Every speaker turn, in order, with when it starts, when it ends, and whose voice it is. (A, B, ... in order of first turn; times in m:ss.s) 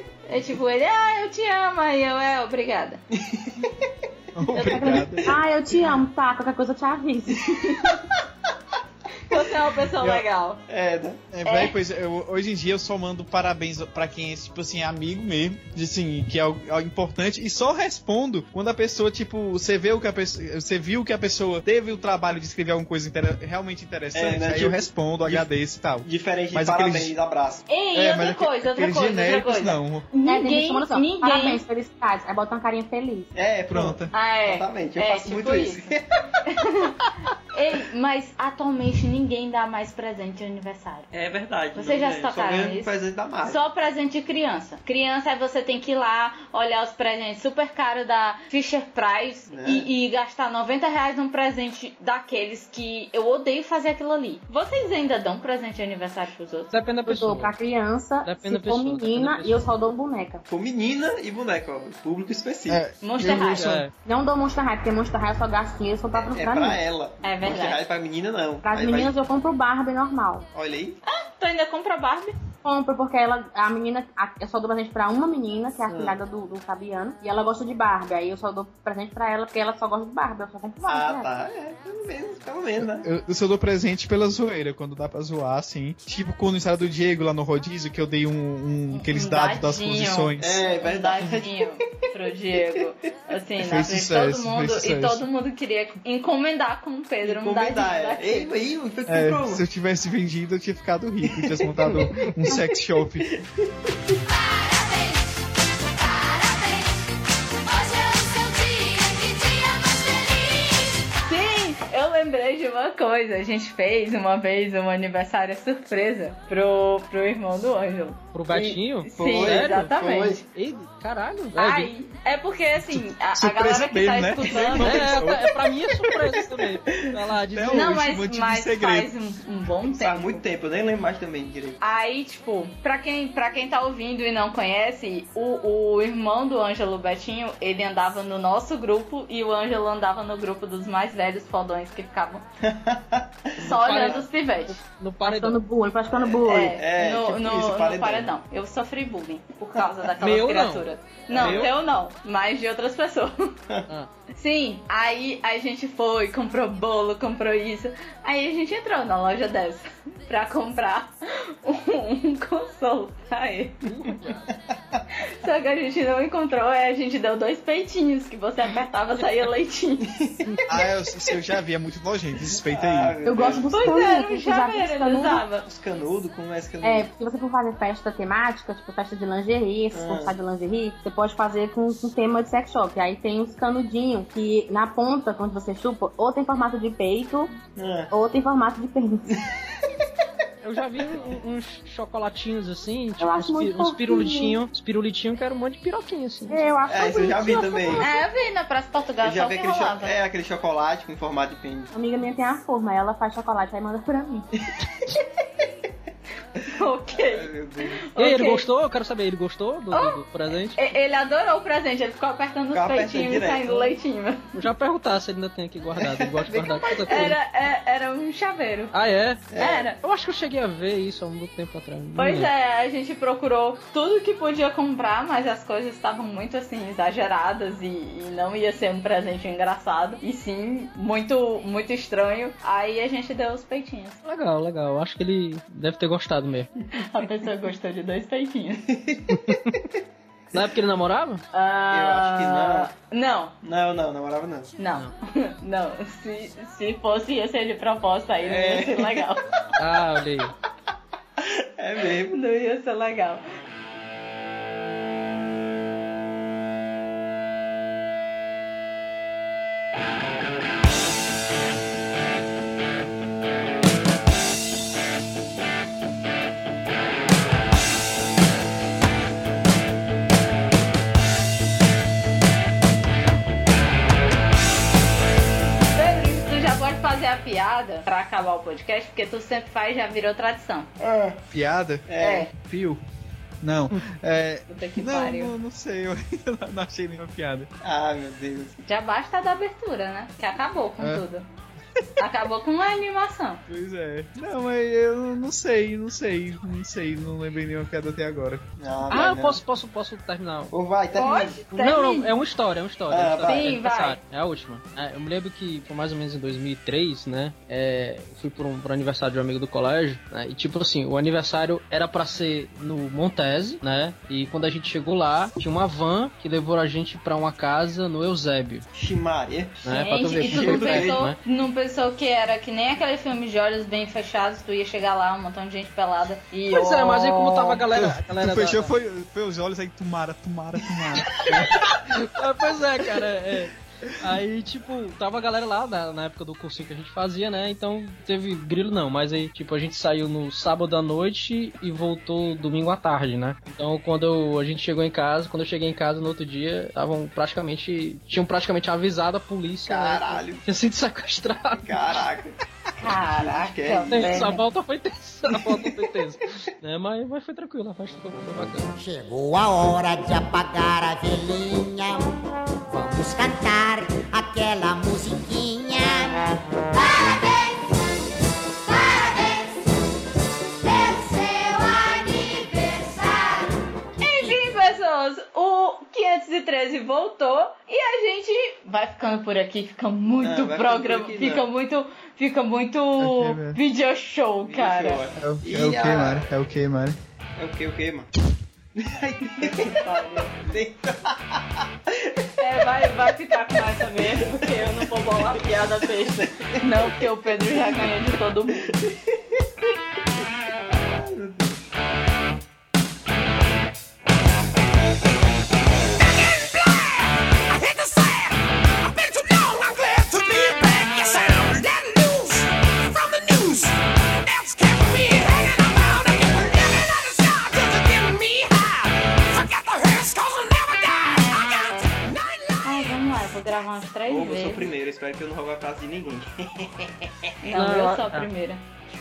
0:00.3-0:03.0 A
0:03.1-0:03.9 B
0:04.4-0:05.4 C
0:04.5-0:05.2 A
0:04.6-0:07.9 D
0:09.3-0:10.6 A
0:10.0-0:10.2 C
0:10.7-0:11.2 B
0:11.3-0:27.1 C
0:11.4-0:11.8 A
0:24.1-0:25.5 B
0:26.0-0:27.6 B
0:27.7-0:31.6 A
0:27.9-0:30.1 C
0:30.2-0:33.3 D
0:33.4-0:36.0 B
0:33.7-0:34.1 C
0:34.1-0:35.9 A
0:36.5-0:37.0 A
0:37.5-0:41.1 A
0:41.1-0:43.6 B
0:41.7-0:42.9 A
0:43.4-0:56.8 A
0:49.5-0:49.9 B
0:56.7-0:57.5 E
0:57.1-1:00.4 D
0:58.2-0:59.7 E
1:00.5-1:02.8 B
1:02.7-1:03.9 C
1:03.0-1:03.7 A
1:03.3-1:03.9 E
1:04.0-1:06.8 D
1:06.3-1:09.2 B
1:07.2-1:07.8 A
1:08.6-1:10.5 D
1:10.5-1:11.0 B
1:11.1-1:12.3 A
1:12.6-1:21.3 D
1:15.9-1:16.2 B
1:20.8-1:23.1 B
1:22.8-1:30.6 C
1:28.9-1:38.5 A
1:30.4-1:31.6 B
1:32.6-1:32.8 B
1:33.6-1:35.2 C
1:37.2-1:39.6 B
1:39.1-1:43.4 C
1:41.2-1:41.9 B
1:43.3-1:44.2 B
1:51.2-2:00.4 A
1:58.3-1:59.9 E
1:59.2-2:00.4 B
2:00.5-2:01.9 E
2:01.6-2:05.2 A
2:02.8-2:05.5 C
2:04.8-2:08.0 E
2:07.5-2:09.1 C
2:07.7-2:10.4 A
2:09.8-2:11.8 B
2:11.8-2:22.4 A
2:22.6-2:24.3 B
2:23.6-2:24.8 A
2:23.6-2:25.6 E
2:25.2-2:26.8 D
2:26.1-2:28.3 B
2:26.5-2:33.6 A
2:29.8-2:30.1 B
2:30.2-2:31.7 E
2:31.3-2:31.7 B
2:34.3-2:43.9 A
2:43.8-2:44.5 E
2:45.3-2:50.1 A
2:50.1-2:50.5 B
2:50.7-2:53.2 C
2:52.7-2:54.0 B
2:53.2-2:55.4 D
2:53.7-2:55.7 A
2:55.6-2:57.1 B
2:56.8-3:07.5 D
2:59.9-3:00.4 B
3:07.8-3:08.1 B
3:08.1-3:09.4 D
3:10.6-3:16.6 E
3:13.2-3:14.6 D
3:16.5-3:18.2 D
3:16.9-3:18.1 B
3:18.0-3:20.2 A
3:19.2-3:21.9 B
3:21.9-3:24.5 D
3:26.7-3:28.7 A
3:27.1-3:28.0 B
3:28.2-3:30.9 E
3:29.9-3:30.2 A
3:30.8-3:34.4 A
3:32.7-3:33.9 B
3:34.5-3:37.4 E
3:35.9-3:37.4 B
3:37.1-3:38.9 A
3:38.9-3:39.5 E
3:39.5-3:39.9 B
3:39.6-3:40.0 A
3:40.0-3:42.5 E
3:42.2-3:54.2 A
3:54.2-3:56.7 E
3:56.9-3:59.0 A
3:58.9-3:59.6 B
3:59.3-3:59.8 E
4:00.5-4:01.4 E
4:01.5-4:03.5 A
4:01.9-4:02.9 B
4:03.6-4:04.7 B
4:04.8-4:09.4 A
4:08.4-4:09.3 B
4:09.8-4:10.5 E
4:11.4-4:12.4 B
4:12.3-4:13.4 A
4:35.9-4:40.9 A
4:41.0-4:41.4 B
4:41.5-4:43.0 C
4:42.1-4:42.5 B
4:42.2-4:42.5 A
4:43.6-4:47.7 C
4:44.7-4:45.5 A
4:47.8-4:48.7 B
4:48.8-4:51.4 A
4:52.2-4:53.6 A
4:53.7-4:58.6 C
4:58.8-4:59.6 B
4:59.1-5:00.7 E
5:00.7-5:01.6 B
5:01.2-5:02.4 A
5:01.7-5:18.9 E
5:03.1-5:03.7 B
5:03.4-5:04.2 A
5:18.9-5:21.3 B
5:19.8-5:21.4 E
5:19.9-5:27.8 A
5:26.7-5:28.9 E
5:27.9-5:32.0 C
5:31.3-5:52.0 E
5:49.9-5:50.6 B
5:51.9-5:52.6 B
5:53.0-5:54.6 A
5:53.1-5:54.5 B
5:54.1-5:58.9 E
5:55.5-5:55.9 B
5:59.0-6:02.3 F
6:02.9-6:08.0 F
6:08.8-6:09.8 F
6:10.8-6:13.7 F
6:14.2-6:25.2 A
6:14.4-6:14.7 F
6:20.4-6:21.7 B
6:23.2-6:23.8 C
6:24.6-6:26.5 B
6:25.4-6:27.2 C
6:27.6-6:28.3 B
6:29.0-6:32.4 B
6:29.6-6:30.5 A
6:32.6-6:38.9 A
6:34.0-6:38.2 B
6:38.8-6:39.9 B
6:40.9-6:41.7 B
6:46.1-7:03.1 G
7:02.8-7:04.9 A
7:04.3-7:07.5 B
7:07.6-7:08.8 A
7:07.7-7:08.5 E